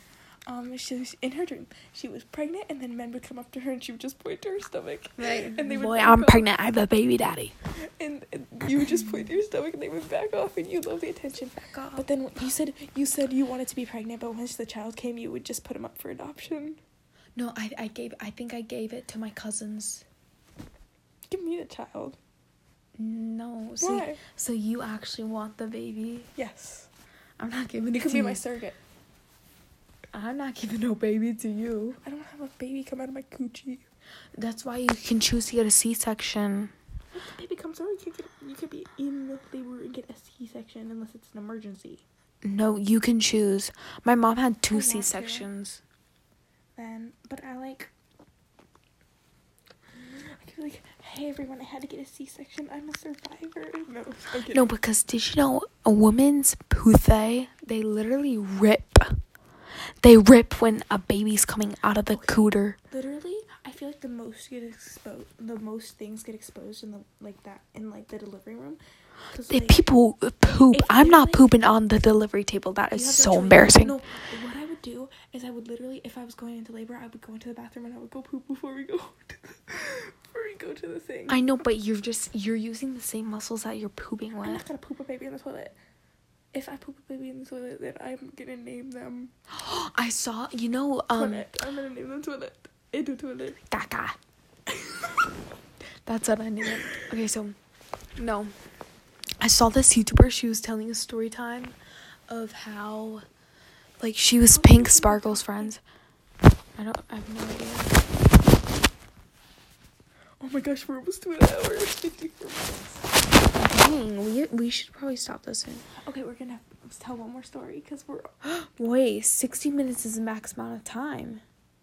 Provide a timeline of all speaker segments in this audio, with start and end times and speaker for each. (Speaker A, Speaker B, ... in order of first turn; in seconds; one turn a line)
Speaker A: 0.5-6.5
Speaker B: 5.2-7.5
Speaker A: 7.8-16.8
Speaker B: 11.7-12.1
Speaker B: 17.3-20.1
Speaker A: 21.3-22.2
Speaker B: 23.0-26.3
Speaker A: 23.8-24.2
Speaker A: 26.4-26.9
Speaker B: 27.4-28.4
Speaker A: 28.0-28.8
Speaker B: 30.1-32.0
Speaker A: 32.0-33.9
Speaker B: 34.4-36.7
Speaker A: 37.1-42.0
Speaker B: 42.4-45.8
Speaker A: 44.7-45.5
Speaker A: 46.8-47.9
Speaker A: 50.0-54.7
Speaker B: 54.5-59.2
Speaker B: 60.0-62.8
Speaker A: 62.1-68.8
Speaker A: 69.3-69.8
Speaker B: 69.5-73.9
Speaker A: 70.7-71.5
Speaker A: 72.9-81.4
Speaker B: 81.3-84.6
Speaker A: 84.4-85.8
Speaker A: 86.5-89.3
Speaker B: 89.5-91.5
Speaker A: 91.1-93.6
Speaker B: 93.7-94.2
Speaker A: 94.7-95.1
Speaker B: 96.0-97.5
Speaker B: 98.2-98.5
Speaker B: 99.4-101.7
Speaker B: 102.3-103.2
Speaker B: 104.0-105.8
Speaker A: 104.5-105.7
Speaker B: 106.8-108.0
Speaker A: 110.4-113.1
Speaker B: 113.5-115.8
Speaker A: 116.0-118.3
Speaker B: 118.4-121.4